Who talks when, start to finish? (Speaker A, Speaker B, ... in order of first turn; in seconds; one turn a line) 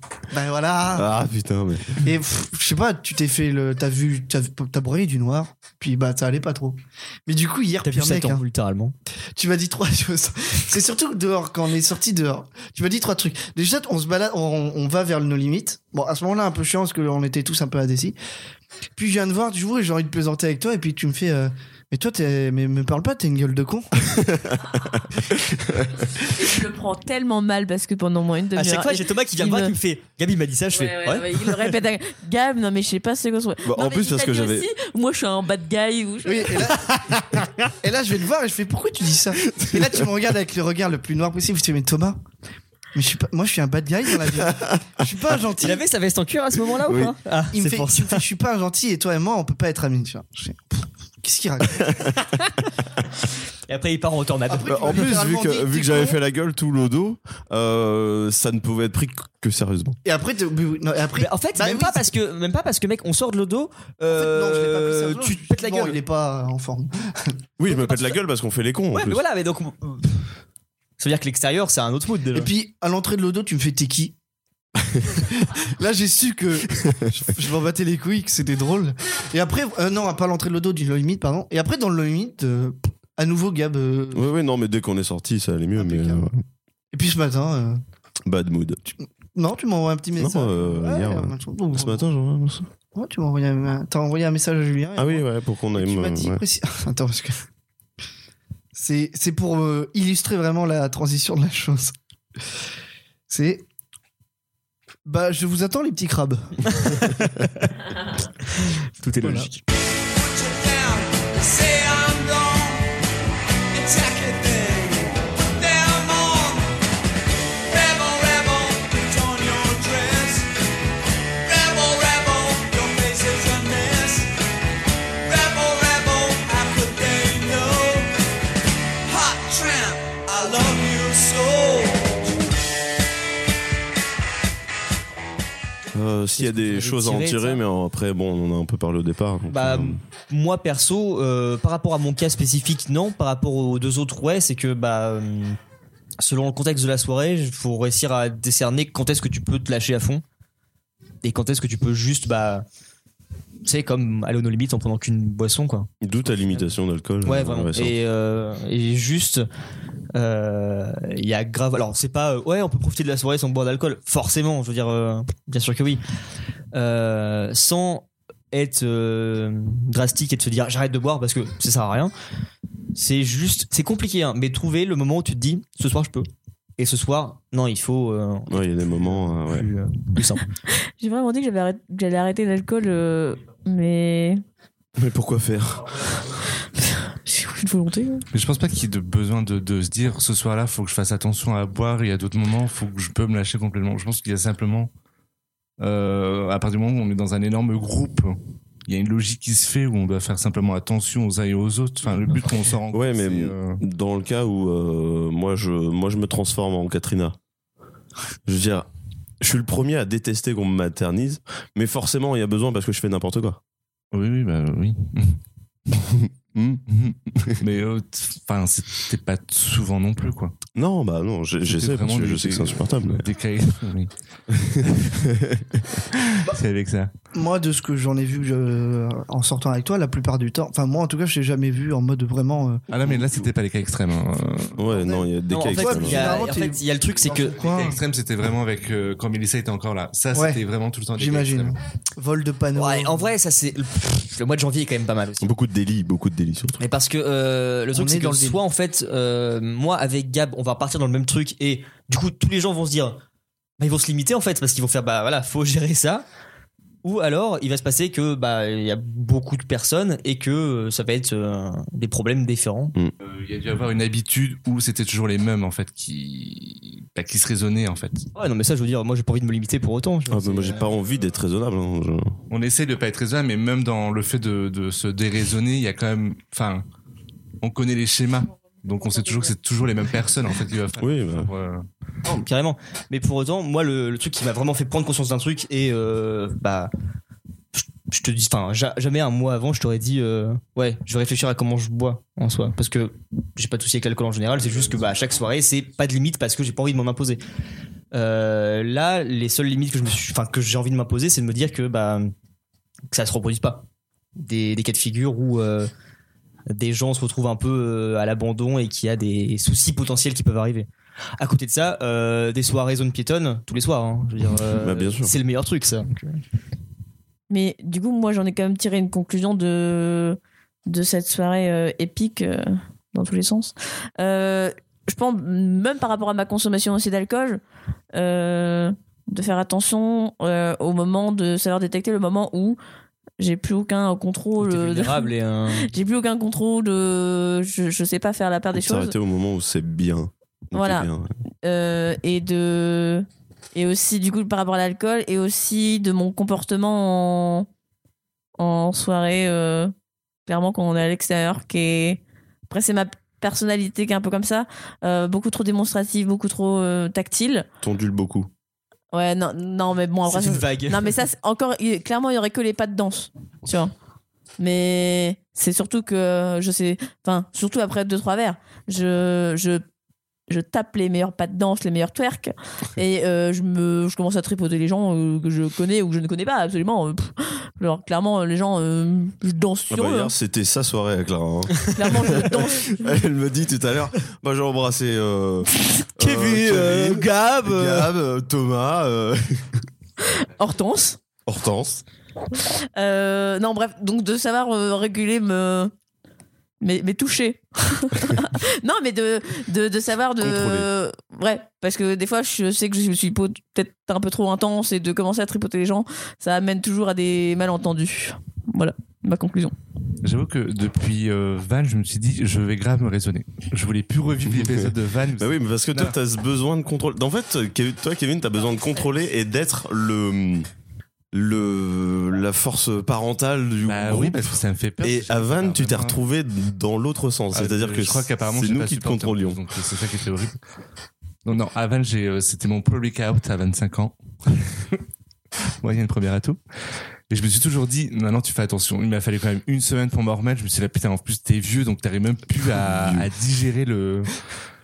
Speaker A: 0.3-1.1
Speaker B: 0.9-2.1
Speaker A: 2.0-8.4
Speaker C: 7.8-8.9
Speaker A: 9.3-18.2
Speaker A: 19.0-24.1
Speaker B: 24.1-25.9
Speaker D: 26.2-29.8
Speaker C: 28.5-31.7
Speaker D: 30.7-36.7
Speaker B: 33.6-34.7
Speaker A: 36.2-42.2
Speaker B: 39.5-40.0
Speaker A: 42.9-45.8
Speaker B: 44.2-44.9
Speaker C: 45.6-48.2
Speaker B: 46.8-47.2
Speaker A: 47.5-52.0
Speaker C: 53.7-55.1
Speaker A: 54.5-56.2
Speaker B: 54.6-60.0
Speaker A: 60.0-62.1
Speaker C: 61.2-66.0
Speaker A: 64.1-67.4
Speaker B: 67.6-69.2
Speaker C: 67.7-68.2
Speaker C: 68.9-70.2
Speaker C: 71.0-72.5
Speaker A: 72.3-74.2
Speaker A: 75.0-84.3
Speaker B: 76.7-77.1
Speaker B: 84.1-86.5
Speaker A: 85.8-86.3
Speaker A: 86.9-87.8
Speaker B: 88.3-88.8
Speaker A: 88.9-92.1
Speaker B: 90.2-92.7
Speaker A: 92.9-97.4
Speaker B: 95.0-96.4
Speaker A: 98.7-102.0
Speaker A: 103.3-103.7
Speaker A: 105.1-107.1
Speaker C: 106.7-107.7
Speaker C: 108.4-109.6
Speaker A: 109.2-109.5
Speaker E: 110.1-112.9
Speaker E: 113.7-116.7
Speaker E: 117.7-120.5
Speaker E: 121.4-124.3
Speaker E: 125.2-128.1
Speaker E: 129.1-132.5
Speaker B: 135.9-140.0
Speaker C: 136.4-137.6
Speaker C: 139.5-145.6
Speaker C: 146.2-150.2
Speaker C: 151.2-152.7
Speaker C: 153.7-155.9
Speaker B: 156.0-158.0
Speaker C: 157.2-159.5
Speaker C: 160.1-166.0
Speaker C: 166.7-172.1
Speaker C: 172.9-180.4
Speaker B: 178.5-179.7
Speaker D: 180.7-184.4
Speaker B: 185.0-186.1
Speaker D: 186.8-188.3
Speaker F: 188.3-194.9
Speaker F: 195.8-203.8
Speaker B: 202.9-207.4
Speaker B: 208.5-208.9
Speaker B: 209.4-213.6
Speaker F: 214.1-215.4
Speaker B: 216.0-216.8
Speaker F: 216.9-220.6
Speaker B: 217.3-217.6
Speaker B: 220.8-223.3
Speaker F: 221.6-224.1
Speaker B: 224.5-225.8
Speaker F: 224.8-225.3
Speaker F: 226.1-227.1
Speaker A: 227.3-232.8
Speaker F: 232.9-234.8
Speaker B: 233.0-233.4
Speaker B: 234.8-236.5
Speaker A: 234.9-238.0
Speaker C: 235.5-237.9
Speaker F: 237.6-241.8
Speaker A: 240.3-240.6
Speaker A: 241.2-243.3
Speaker C: 242.8-245.5
Speaker B: 245.4-246.8
Speaker C: 246.8-253.2
Speaker A: 247.9-248.6
Speaker C: 253.8-256.2
Speaker C: 257.0-262.9
Speaker F: 263.2-268.3
Speaker C: 268.4-270.9
Speaker B: 270.3-272.4
Speaker F: 272.5-276.9
Speaker F: 277.6-281.9
Speaker B: 281.0-281.5
Speaker C: 282.2-286.9
Speaker C: 287.7-297.4
Speaker C: 298.1-302.3
Speaker C: 303.1-303.9
Speaker C: 304.4-305.9
Speaker C: 306.7-316.4
Speaker B: 314.7-315.3
Speaker D: 317.5-327.6
Speaker D: 328.1-332.8
Speaker D: 333.4-339.1
Speaker C: 334.6-335.9
Speaker B: 338.7-341.3
Speaker D: 340.7-341.1
Speaker D: 341.6-347.7
Speaker D: 348.6-349.9
Speaker D: 350.5-357.7
Speaker B: 357.8-358.5
Speaker D: 359.1-363.9
Speaker C: 360.3-361.1
Speaker D: 364.6-369.8
Speaker D: 370.5-380.3
Speaker B: 379.9-389.9
Speaker D: 382.0-383.1
Speaker C: 386.2-388.1
Speaker D: 390.2-391.2
Speaker B: 391.5-392.0
Speaker D: 392.5-395.9
Speaker D: 396.8-409.7
Speaker B: 400.4-400.9
Speaker F: 410.2-416.1
Speaker B: 414.5-414.9
Speaker B: 415.4-420.7
Speaker B: 421.3-429.6
Speaker F: 423.9-426.2
Speaker F: 427.5-430.6
Speaker F: 431.4-435.0
Speaker F: 435.8-436.6
Speaker F: 437.3-444.4
Speaker B: 442.6-443.3